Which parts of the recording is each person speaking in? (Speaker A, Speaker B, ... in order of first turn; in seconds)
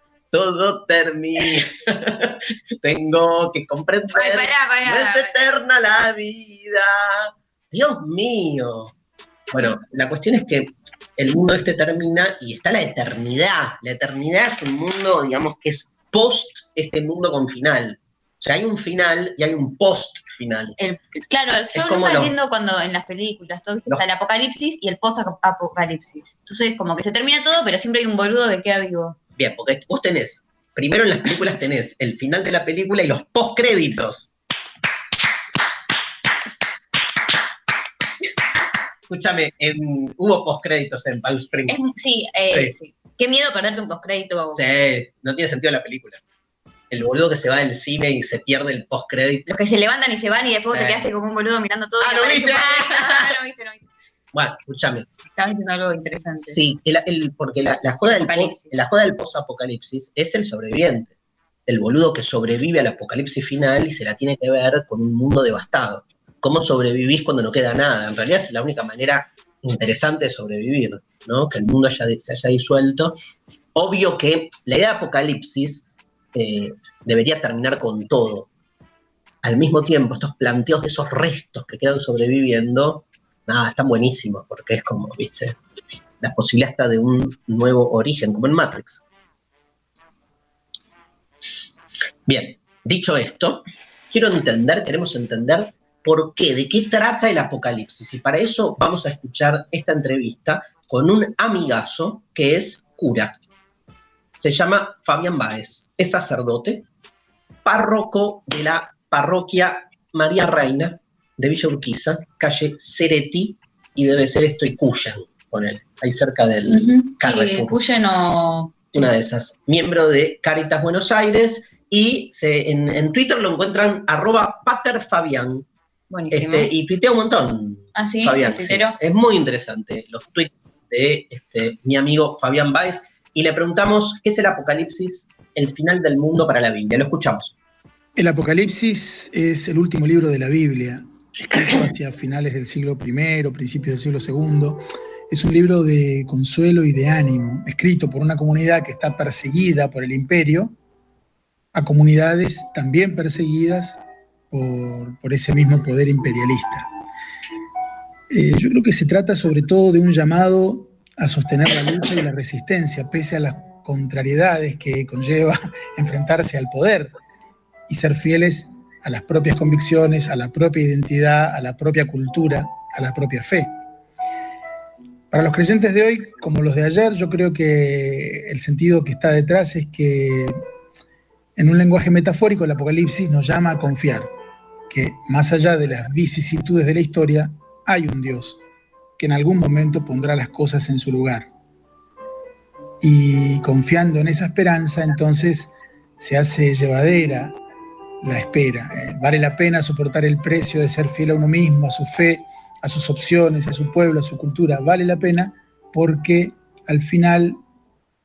Speaker A: 0.3-8.9, 9.5-20.8, 21.7-22.3, 29.4-34.3, 39.1-41.8, 42.5-42.7, 44.5-46.2, 46.9-49.5, 50.7-51.1, 52.0-53.3, 54.3-55.1, 56.4-61.1, 61.6-73.2, 73.7-78.5, 79.4-85.6, 86.2-89.0, 92.2-103.3, 104.4-106.8, 107.6-117.8, 118.9-125.7, 126.3-137.5
Speaker B: 4.1-5.4, 20.8-29.2, 41.7-44.6, 49.5-53.8, 55.4-56.6, 58.0-58.7, 116.7-119.1, 126.1-126.7, 127.9-129.0
Speaker C: 138.2-150.8, 151.7-154.0, 154.5-156.9, 158.3-167.1, 167.9-173.7, 175.3-180.6, 181.6-184.3, 184.9-188.6, 189.2-191.5, 193.0-197.6, 198.2-207.6